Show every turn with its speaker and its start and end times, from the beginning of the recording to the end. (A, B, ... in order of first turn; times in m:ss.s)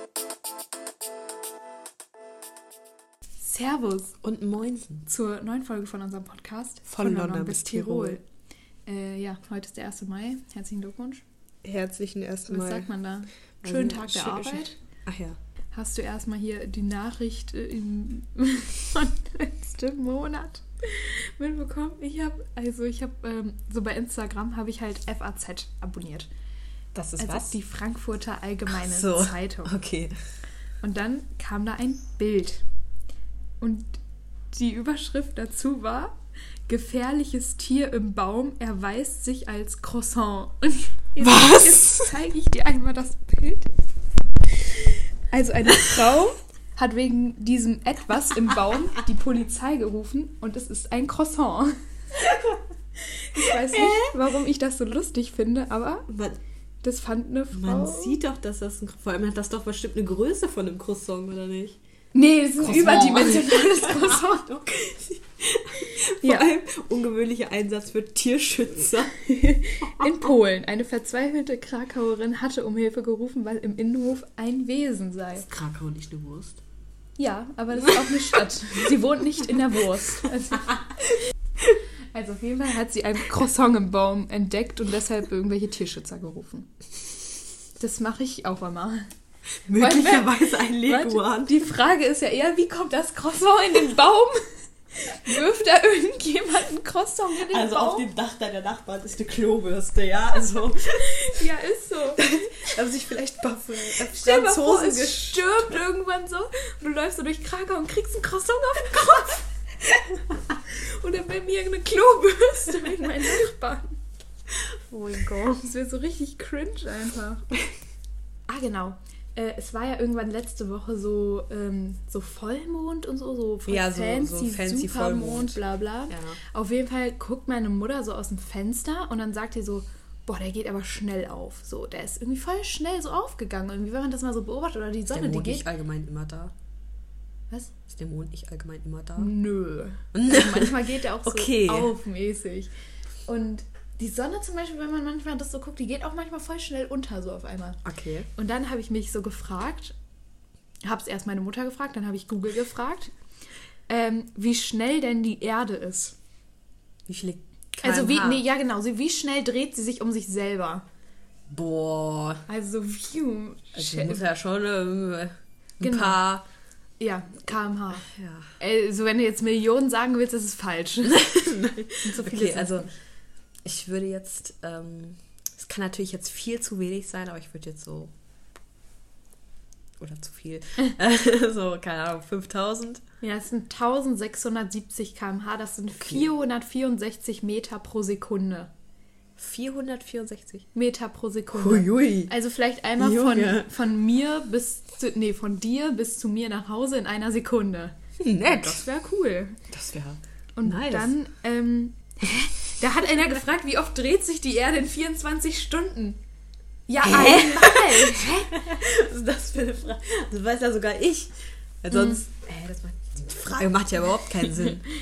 0:03.4-0:04.2 A
0:04.2-0:05.1 B
0:05.1-0:08.2 A
0:06.9-0:08.2 B
0:08.8-0:11.2 A
0:11.6-0:12.9 B
0:12.5-0:14.7 A
0:13.6-0:15.4 B
0:15.7-0:26.3 A
0:26.9-0:27.6 B
0:27.2-0:29.7 A
0:28.7-0:30.2 B
0:30.8-0:32.6 A
0:33.6-0:34.0 A
0:34.5-0:36.2 A
0:36.7-0:43.7 A
0:41.2-0:42.1 B
0:45.3-0:51.8 A
0:52.1-0:52.6 B
0:53.1-0:56.1 A
0:53.4-0:54.1 B
0:56.1-0:56.4 B
0:56.8-0:58.2 A
0:57.5-1:01.8 B
1:02.1-1:04.5 A
1:02.6-1:09.2 B
1:05.8-1:06.5 A
1:09.2-1:15.5 A
1:15.4-1:16.6 B
1:17.2-1:26.7 A
1:17.8-1:18.4 B
1:27.8-1:29.1 A
1:29.7-1:31.6 B
1:29.7-1:38.1 A
1:37.5-1:41.4 B
1:41.0-1:42.8 A
1:42.1-1:45.4 B
1:43.9-1:54.0 A
1:54.9-1:57.4 A
1:58.5-2:15.7 A
2:03.6-2:06.4 B
2:15.1-2:16.5 B
2:17.8-2:19.3 B
2:19.2-2:22.7 A
2:20.1-2:21.9 B
2:23.2-2:27.8 A
2:27.8-2:28.3 B
2:28.3-2:29.9 A
2:30.8-2:33.1 A
2:33.9-2:36.2 A
2:37.0-2:38.4 B
2:37.8-2:40.8 A
2:41.5-2:42.4 B
2:42.5-2:44.3 A
2:43.8-2:46.4 B
2:45.8-2:46.2 A
2:47.0-2:51.4 A
2:48.1-2:48.5 B
2:51.0-2:52.9 B
2:52.0-2:52.9 A
2:53.6-2:58.1 B
3:00.0-3:03.0 B
3:03.2-3:08.7 A
3:06.0-3:06.3 B
3:09.4-3:10.7 B
3:10.7-3:19.6 A
3:11.5-3:12.3 B
3:13.0-3:13.7 B
3:18.2-3:18.8 B
3:19.7-3:21.1 B
3:20.6-3:26.2 A
3:26.9-3:28.6 A
3:27.0-3:34.8 B
3:31.9-3:32.2 A